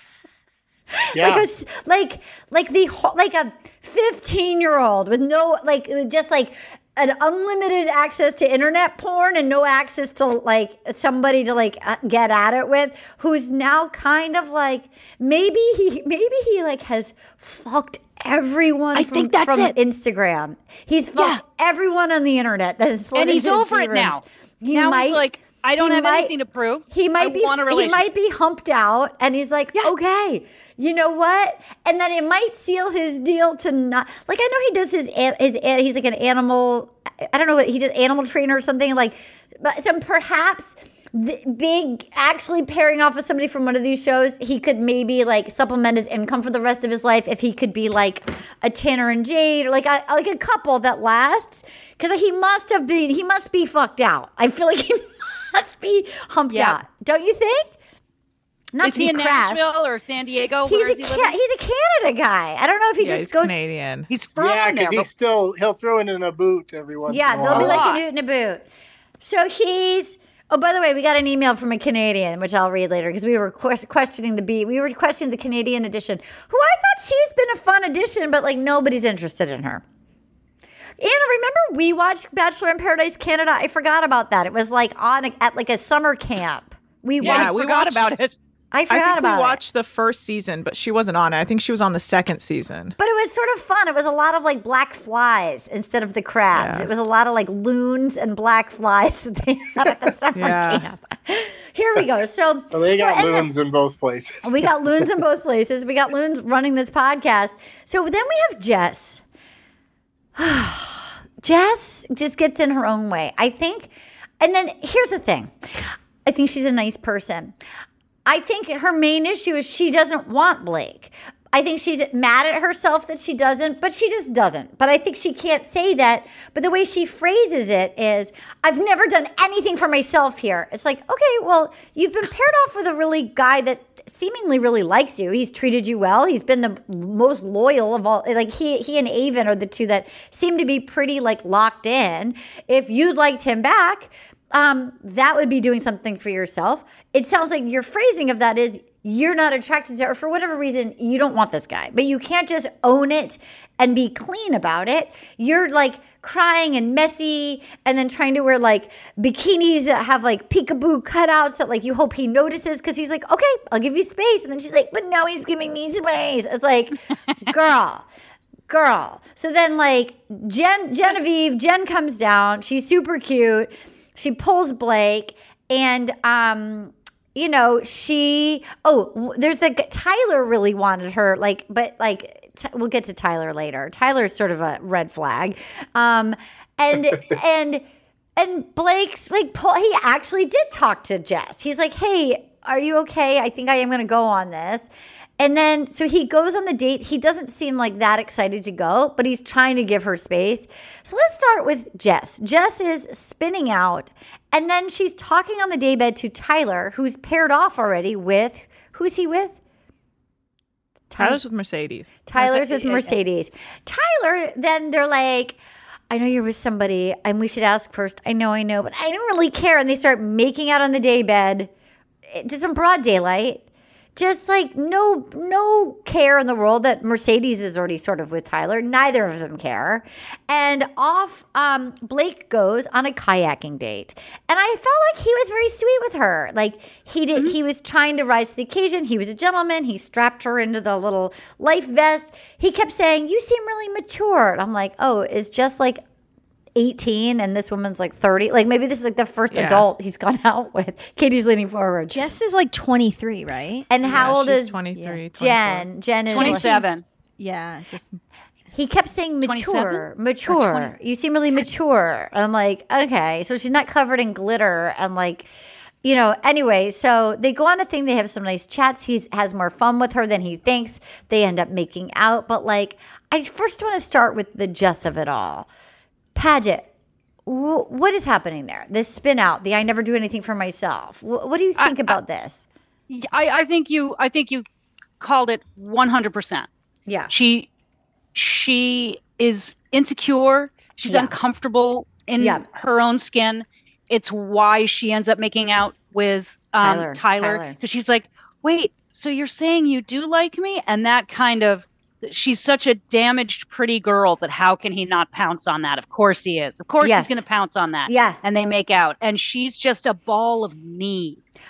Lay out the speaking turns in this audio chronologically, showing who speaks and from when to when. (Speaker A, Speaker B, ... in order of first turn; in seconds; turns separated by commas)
Speaker A: 0.9-25.2, Speaker B: 1.1-1.4, Speaker C: 18.9-19.7, Speaker C: 21.1-21.4, Speaker C: 23.1-28.1, Speaker A: 25.8-26.3, Speaker A: 26.9-57.7, Speaker C: 56.5-56.8, Speaker A: 58.7-59.7, Speaker C: 58.8-61.4, Speaker A: 60.6-63.5, Speaker D: 63.0-64.1, Speaker C: 64.1-65.1, Speaker B: 64.4-67.8, Speaker A: 67.1-68.7, Speaker C: 67.5-68.0, Speaker A: 69.2-79.8, Speaker A: 81.0-87.5, Speaker D: 87.2-88.2, Speaker C: 87.2-88.3, Speaker A: 88.7-89.6, Speaker D: 88.9-92.9, Speaker A: 93.0-103.5, Speaker D: 96.5-96.9, Speaker D: 100.3-100.8, Speaker B: 102.7-104.7, Speaker A: 104.4-109.2, Speaker A: 110.3-117.5, Speaker A: 118.2-168.1, Speaker A: 168.7-187.8, Speaker A: 188.4-194.9, Speaker A: 195.4-209.6, Speaker A: 211.1-211.4, Speaker D: 211.2-212.1, Speaker A: 212.2-215.6, Speaker C: 212.3-213.2, Speaker A: 216.1-221.7, Speaker A: 222.3-223.6, Speaker A: 224.2-246.0, Speaker A: 246.7-252.3, Speaker D: 249.5-249.9, Speaker E: 252.1-254.4, Speaker A: 253.9-254.8, Speaker D: 254.0-255.9, Speaker E: 254.9-255.3, Speaker A: 255.3-256.8, Speaker C: 256.3-257.0, Speaker E: 256.3-256.9, Speaker E: 257.4-258.2, Speaker A: 258.7-265.5, Speaker C: 259.4-260.9, Speaker A: 266.0-275.7, Speaker A: 276.3-276.9, Speaker A: 277.4-282.6, Speaker C: 281.8-282.2, Speaker C: 283.1-284.6, Speaker C: 285.2-286.7, Speaker C: 287.3-287.7, Speaker C: 288.3-311.4, Speaker A: 291.0-291.3, Speaker A: 292.4-292.6, Speaker A: 296.8-297.8, Speaker A: 307.0-307.4, Speaker A: 308.1-308.4